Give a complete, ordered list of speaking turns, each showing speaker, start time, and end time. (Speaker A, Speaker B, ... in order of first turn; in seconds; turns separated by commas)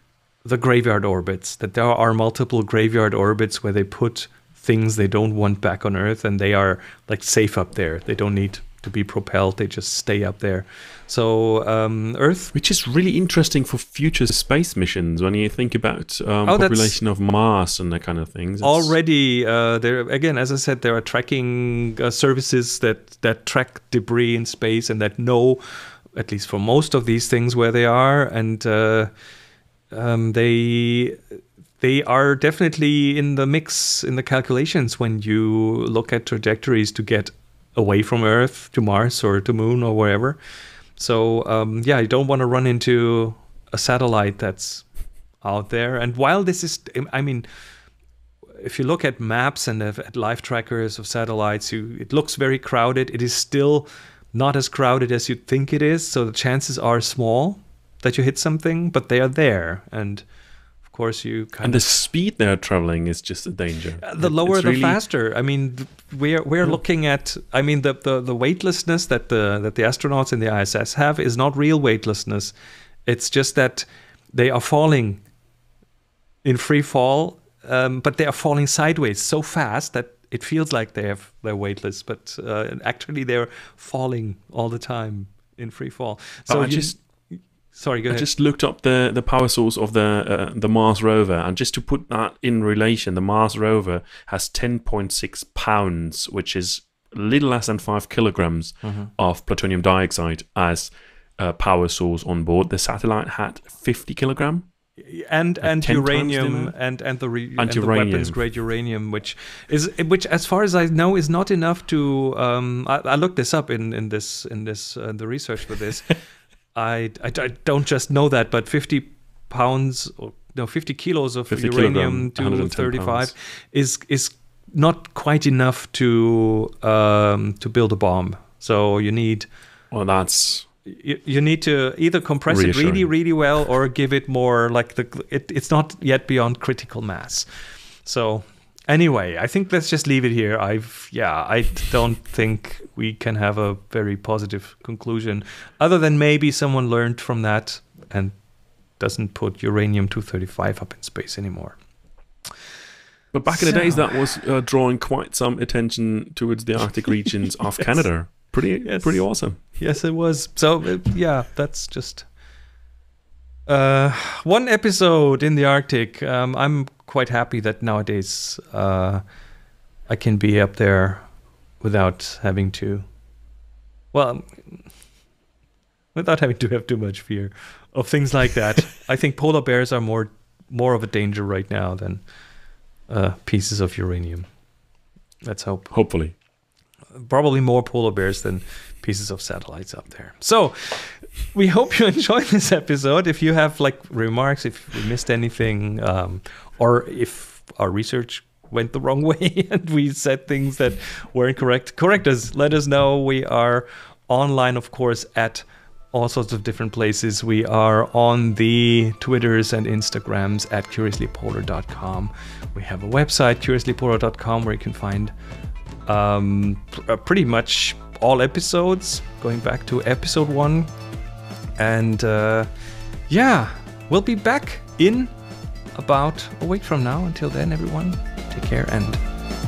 Speaker A: 0.4-12.5, Speaker B: 12.5-18.9, Speaker A: 16.4-16.9, Speaker A: 18.6-25.6, Speaker A: 26.1-29.1, Speaker A: 29.9-31.2, Speaker A: 31.8-40.4, Speaker A: 41.0-44.8, Speaker A: 45.4-47.5, Speaker A: 48.6-60.2, Speaker A: 60.8-61.9, Speaker B: 61.6-65.0, Speaker A: 64.0-72.5, Speaker A: 73.1-75.2, Speaker A: 76.4-87.0, Speaker B: 86.5-87.0, Speaker A: 87.7-88.2, Speaker B: 88.1-104.7, Speaker A: 105.0-116.1, Speaker B: 105.6-106.7, Speaker B: 107.6-108.4, Speaker A: 116.7-129.5, Speaker B: 121.5-123.3, Speaker B: 129.9-130.7, Speaker A: 130.8-137.4, Speaker B: 132.5-133.1, Speaker A: 138.0-148.3, Speaker A: 149.0-151.8, Speaker B: 153.3-159.6, Speaker A: 153.5-154.1, Speaker A: 158.8-162.3, Speaker A: 163.7-169.2, Speaker A: 170.1-171.2, Speaker A: 171.8-173.1, Speaker A: 174.1-174.5, Speaker A: 176.1-182.2, Speaker A: 183.1-184.4, Speaker A: 185.4-185.9, Speaker B: 185.9-186.3, Speaker A: 187.1-215.3, Speaker A: 216.1-220.9, Speaker A: 221.8-222.7, Speaker A: 223.3-225.3, Speaker A: 225.9-229.2